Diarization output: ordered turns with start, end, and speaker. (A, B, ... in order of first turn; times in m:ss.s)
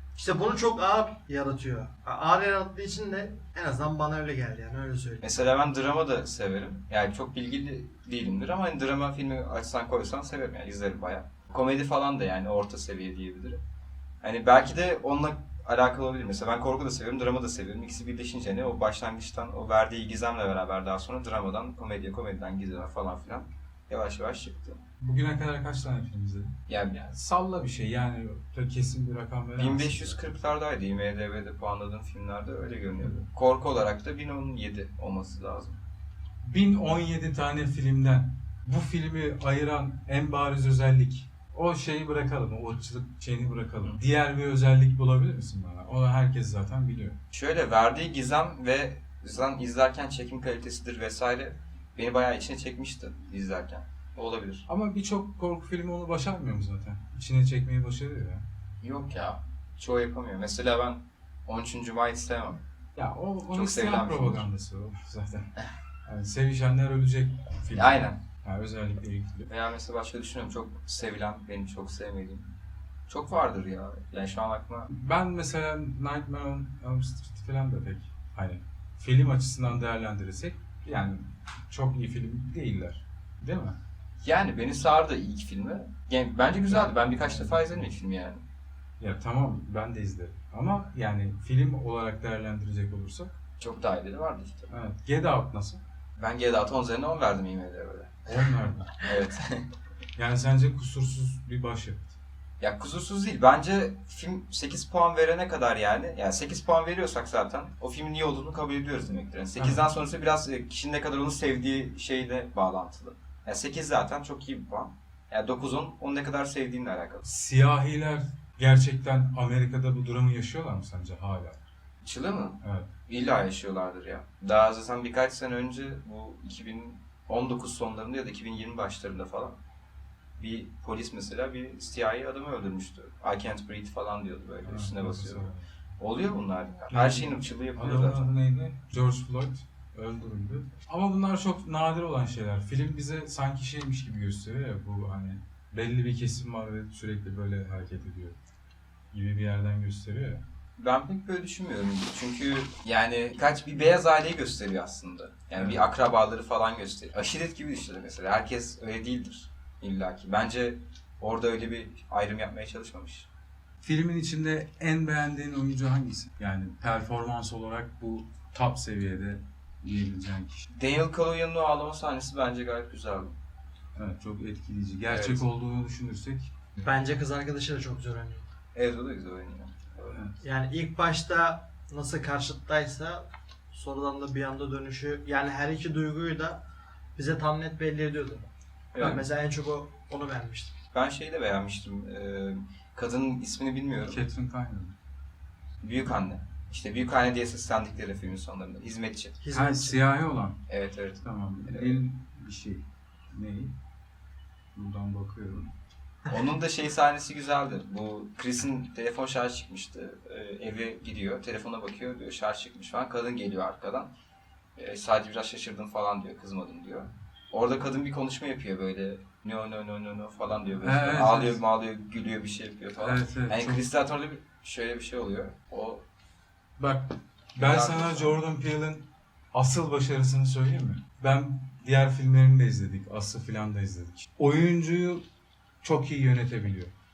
0:00.2-0:05.2 A
0:05.2-0:13.6 B
0:14.2-0:24.8 B
0:25.0-0:30.2 C
0:26.7-0:27.0 B
0:29.6-0:35.8 B
0:33.0-0:33.2 C
0:36.4-0:47.2 C
0:47.3-0:54.6 B
0:54.7-0:58.4 C
0:58.8-1:02.6 B
1:03.0-1:05.5 C
1:03.5-1:04.5 B
1:06.0-1:09.5 C
1:07.7-1:08.2 B
1:09.5-1:12.5 B
1:13.1-1:14.9 B
1:14.9-1:23.8 C
1:24.2-1:28.4 B
1:26.7-1:27.8 C
1:29.0-1:33.4 C
1:33.6-1:34.7 B
1:34.7-1:35.8 C
1:36.2-1:38.3 B
1:38.3-1:39.1 C
1:39.0-1:39.7 B
1:40.2-1:42.2 C
1:42.6-1:57.2 B
1:49.6-1:49.9 C
1:57.2-2:01.6 C
2:02.0-2:09.6 B
2:02.6-2:02.9 C
2:10.4-2:18.2 B
2:14.6-2:15.7 C
2:16.9-2:28.4 C
2:29.1-2:30.4 C
2:30.8-2:43.3 B
2:35.5-2:35.8 C
2:43.8-2:50.6 C
2:50.7-2:53.4 B
2:54.0-2:56.6 C
2:55.1-2:55.4 B
2:56.8-2:58.5 A
2:58.7-3:00.2 B
3:00.0-3:00.4 C
3:00.4-3:06.6 A
3:07.2-3:08.4 A
3:08.9-3:09.2 B
3:09.0-3:10.7 A
3:10.9-3:14.2 B
3:14.1-3:15.0 C
3:15.8-3:19.4 B
3:19.4-3:20.0 A
3:19.5-3:20.6 C
3:20.7-3:22.0 B
3:21.2-3:23.7 C
3:24.7-3:25.7 C
3:26.3-3:34.1 B
3:34.8-3:46.0 B
3:40.8-3:41.6 C
3:43.0-3:43.8 C
3:46.8-3:55.2 C
3:47.6-3:48.4 B
3:55.8-3:56.9 C